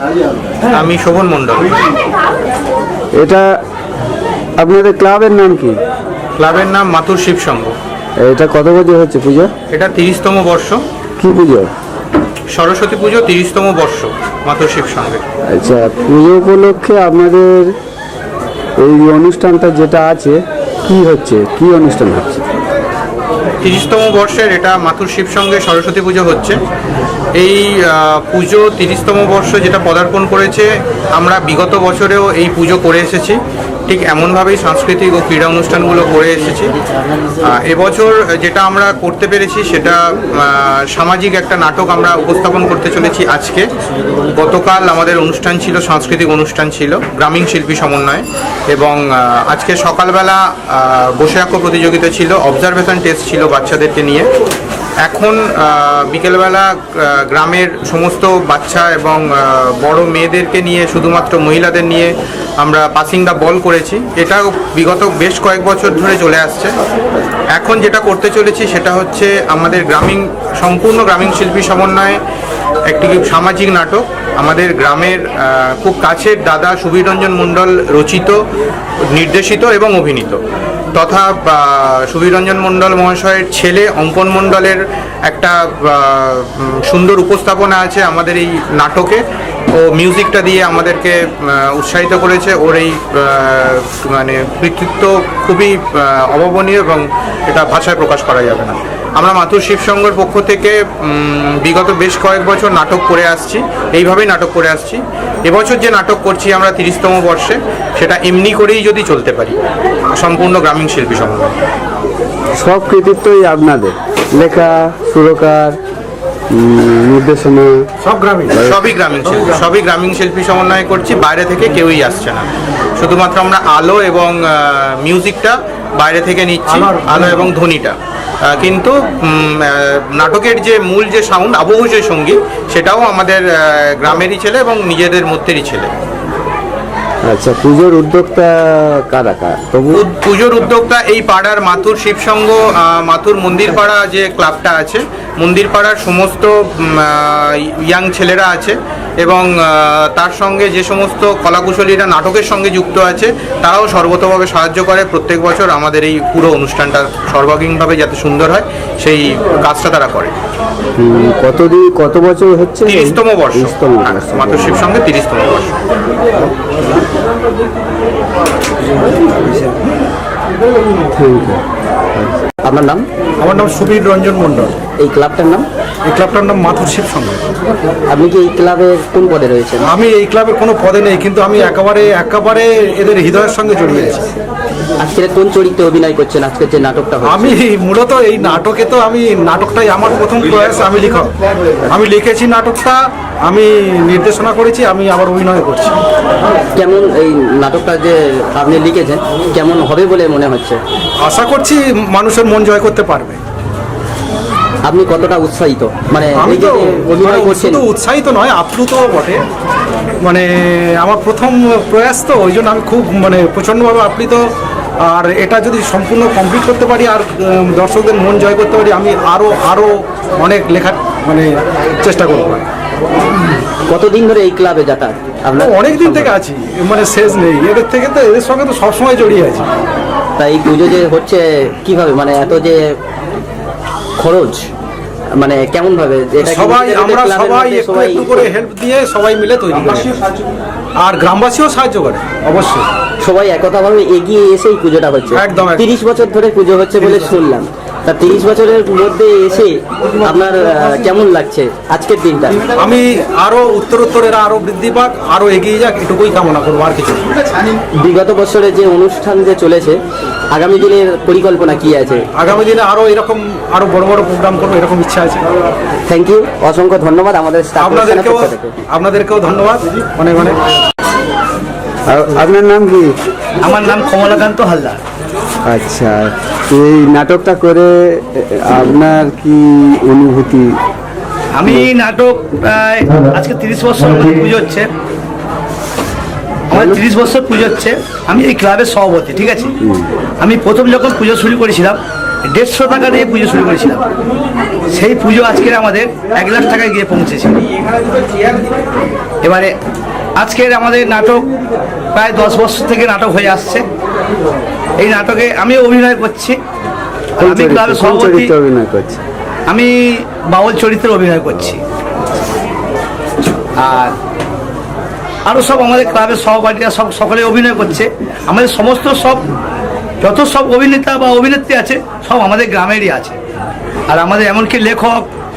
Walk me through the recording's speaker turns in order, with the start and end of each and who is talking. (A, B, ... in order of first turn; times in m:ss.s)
0:00.7-0:01.8 A
0:03.2-0:03.5 B
0:04.6-0:05.8 B
0:06.4-0:07.7 A
0:08.2-0:09.5 B
0:09.7-0:10.8 A
0:11.2-0:11.7 B
0:12.5-0:15.2 A
0:15.5-0:17.7 B
0:18.8-0:22.4 B
0:23.6-0:26.6 A
0:27.4-0:36.8 A
0:37.4-0:43.6 A
0:44.4-0:54.3 A
0:55.0-1:06.7 A
1:07.6-1:12.2 A
1:12.9-1:18.4 A
1:19.1-1:20.4 A
1:21.0-1:29.2 A
1:29.7-1:49.6 A
1:50.2-1:51.5 A
1:52.6-1:55.8 B
1:56.5-1:57.8 B
1:58.0-1:58.6 C
1:58.5-2:08.0 A
2:06.7-2:07.5 C
2:08.5-2:15.9 A
2:17.3-2:20.0 B
2:19.9-2:40.3 A
2:41.0-2:44.9 B
2:42.8-2:45.8 A
2:51.2-2:51.6 B
2:52.6-2:53.1 D
2:53.4-2:54.8 C
2:55.0-2:55.7 D
2:56.0-2:57.4 C
2:58.1-2:59.9 D
2:59.8-3:04.3 C
3:05.0-3:07.6 D
3:07.2-3:11.3 C
3:11.9-3:16.0 C
3:16.8-3:20.8 D
3:21.2-3:23.4 C
3:24.8-3:27.9 D
3:26.4-3:29.4 C
3:30.2-3:34.5 C
3:35.0-3:42.6 C
3:43.9-3:46.3 D
3:45.6-3:49.7 C
3:50.4-3:53.0 D
3:54.2-3:54.7 D
3:55.3-3:58.5 D
3:56.4-4:00.1 C
4:01.0-4:02.9 C
4:03.2-4:12.6 D
4:05.4-4:05.9 C
4:12.8-4:17.3 C
4:18.0-4:22.3 D
4:22.4-4:25.5 C
4:26.1-4:28.7 D
4:27.8-4:30.6 C
4:32.1-4:33.2 B
4:33.6-4:35.0 E
4:35.7-4:40.8 B
4:41.5-4:44.9 E
4:46.7-4:49.7 E
4:50.4-4:54.1 E
4:54.9-4:57.6 E
4:59.4-4:59.7 E
5:00.4-5:01.4 E
5:02.1-5:03.8 E
5:05.0-5:06.6 E
5:07.4-5:08.5 E
5:07.4-5:09.2 B
5:09.7-5:11.8 E
5:13.8-5:14.2 E
5:15.5-5:19.4 E
5:20.2-5:23.4 E
5:24.1-5:25.3 E